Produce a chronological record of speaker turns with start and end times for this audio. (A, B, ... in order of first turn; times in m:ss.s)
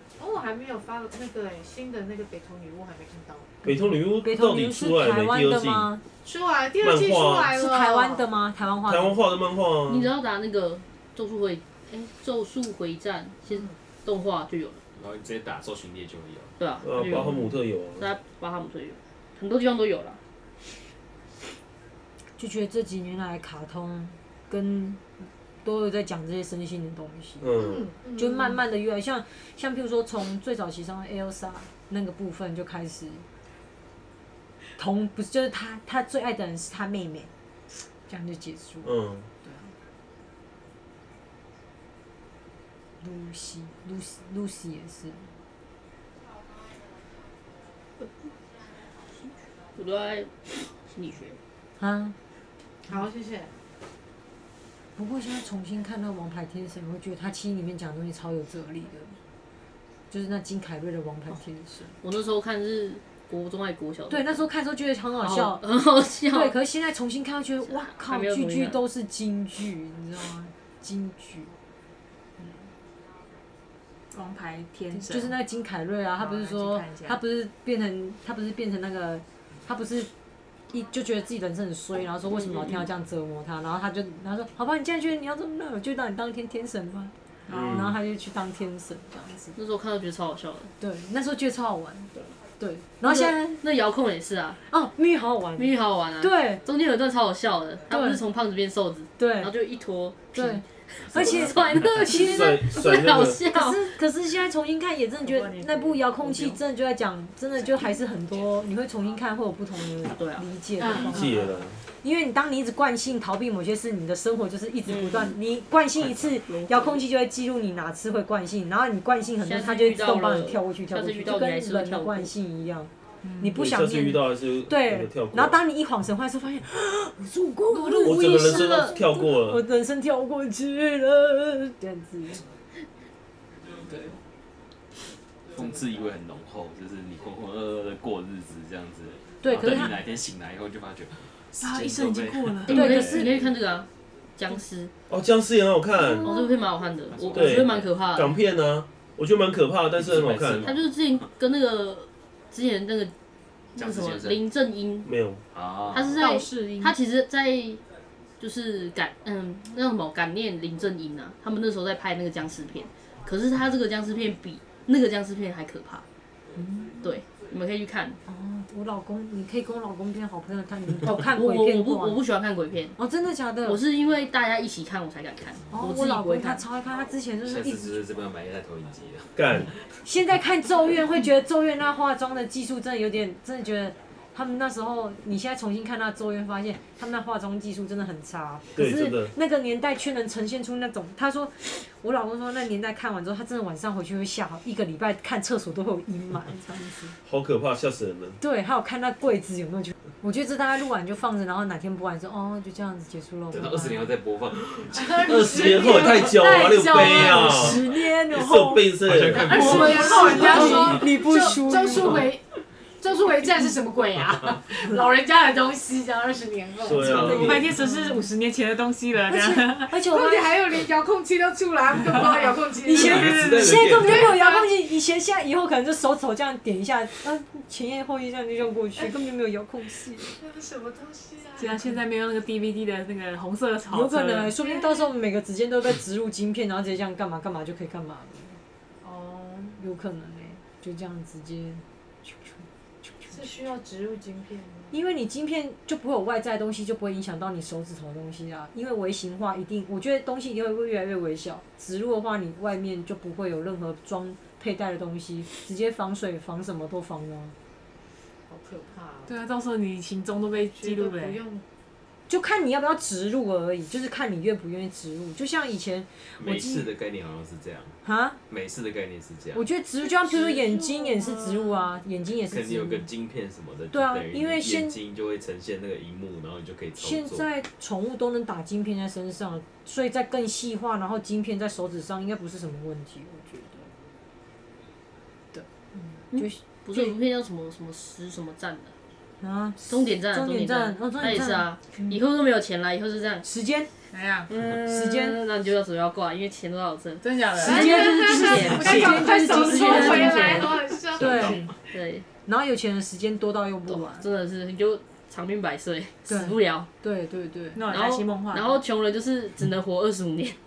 0:00.2-0:03.5 A
0:03.6-0:05.9 B
0:03.6-0:06.0 C
0:06.2-0:08.2 A
0:06.8-0:07.6 B
0:07.5-0:09.2 C
0:08.8-0:10.1 B
0:09.9-0:14.8 D
0:15.0-0:16.5 E
0:16.6-0:20.2 D
0:16.8-0:18.1 B
0:22.4-0:27.5 C
0:27.4-0:27.9 B
0:27.6-0:28.6 A
0:28.2-0:33.2 C
0:34.8-0:37.3 C
0:38.0-0:38.9 C
0:38.8-0:39.3 B
0:43.0-0:45.3 C
0:49.7-0:51.4 D
0:51.8-0:52.2 C
0:52.9-0:53.5 A
0:55.0-0:59.2 C
1:00.1-1:02.0 C
1:02.0-1:04.4 D
1:04.1-1:05.8 C
1:05.2-1:06.6 D
1:06.3-1:11.5 C
1:07.7-1:08.8 D
1:14.1-1:15.4 F
1:14.9-1:20.1 C
1:16.2-1:17.2 F
1:20.7-1:29.6 C
1:27.5-1:27.8 F
1:27.5-1:28.0 B
1:29.6-1:30.7 D
1:30.8-1:33.6 C
1:33.0-1:34.6 D
1:34.7-1:36.6 C
1:35.6-1:43.9 D
1:37.9-1:38.2 C
1:39.2-1:39.5 C
1:40.3-1:42.8 C
1:41.1-1:41.8 E
1:42.1-1:43.4 B
1:43.4-2:12.4 C
1:45.2-1:46.6 F
1:50.2-1:50.4 D
1:50.8-1:51.5 A
1:50.9-1:51.8 B
1:54.9-1:55.4 D
1:56.2-1:57.0 D
1:59.4-2:02.3 D
2:03.2-2:03.6 F
2:03.6-2:05.6 B
2:08.0-2:09.6 B
2:15.5-2:23.5 E
2:19.4-2:20.0 C
2:21.6-2:23.1 F
2:22.7-2:24.9 D
2:22.7-2:23.3 C
2:25.1-2:26.3 B
2:26.2-2:26.5 C
2:26.2-2:28.4 D
2:27.1-2:27.9 E
2:27.3-2:30.7 B
2:29.9-2:31.3 E
2:30.6-2:33.1 D
2:33.7-2:35.1 D
2:33.8-2:34.4 E
2:35.0-2:35.4 B
2:35.5-2:36.2 E
2:35.9-2:37.8 D
2:36.2-2:36.9 F
2:38.4-2:46.0 D
2:46.6-2:47.1 C
2:47.0-2:48.2 D
2:48.3-2:52.2 C
2:51.3-2:53.0 D
2:53.0-2:53.8 C
2:53.6-2:56.6 D
2:55.7-2:58.0 C
2:57.4-2:59.9 E
2:59.4-2:59.7 B
3:00.0-3:17.1 C
3:08.7-3:09.3 B
3:17.2-3:18.4 B
3:18.4-3:24.1 C
3:23.5-3:25.9 E
3:24.9-3:27.8 A
3:25.2-3:30.0 B
3:27.0-3:28.9 C
3:29.0-3:31.0 E
3:29.4-3:32.5 A
3:29.6-3:32.3 C
3:30.2-3:30.8 F
3:33.0-3:37.6 A
3:36.8-3:37.7 B
3:37.1-3:38.2 C
3:37.1-3:40.0 F
3:39.3-3:40.6 C
3:40.1-3:44.7 A
3:42.1-3:42.4 F
3:42.8-3:50.3 C
3:42.9-3:44.4 E
3:43.2-3:43.6 F
3:50.4-3:52.0 A
3:51.6-3:54.5 F
3:53.9-3:58.6 C
3:54.6-3:55.1 A
3:59.0-3:59.8 A
3:59.8-4:03.4 C
4:03.3-4:04.9 A
4:04.9-4:17.5 C
4:18.5-4:19.3 A
4:19.3-4:21.4 F
4:20.7-4:21.6 A
4:22.3-4:26.9 C
4:26.4-4:27.9 E
4:28.0-4:28.4 C
4:28.5-4:29.6 E
4:29.5-4:33.1 C
4:30.0-4:31.9 A
4:32.4-4:37.5 E
4:33.9-4:35.0 C
4:37.0-4:43.9 C
4:45.5-4:47.1 C
4:46.3-4:48.9 D
4:49.4-4:52.2 C
4:49.9-4:53.4 D
4:53.4-4:53.9 C
4:54.1-4:54.5 F
4:54.5-5:00.8 D
4:54.8-4:55.4 C
4:57.2-4:58.0 F
4:57.6-5:01.6 A
4:57.6-5:01.7 C
5:01.2-5:01.7 E
5:01.9-5:02.2 D
5:02.4-5:04.2 C
5:03.9-5:06.9 D
5:06.3-5:07.8 C
5:07.7-5:08.8 F
5:07.9-5:10.6 D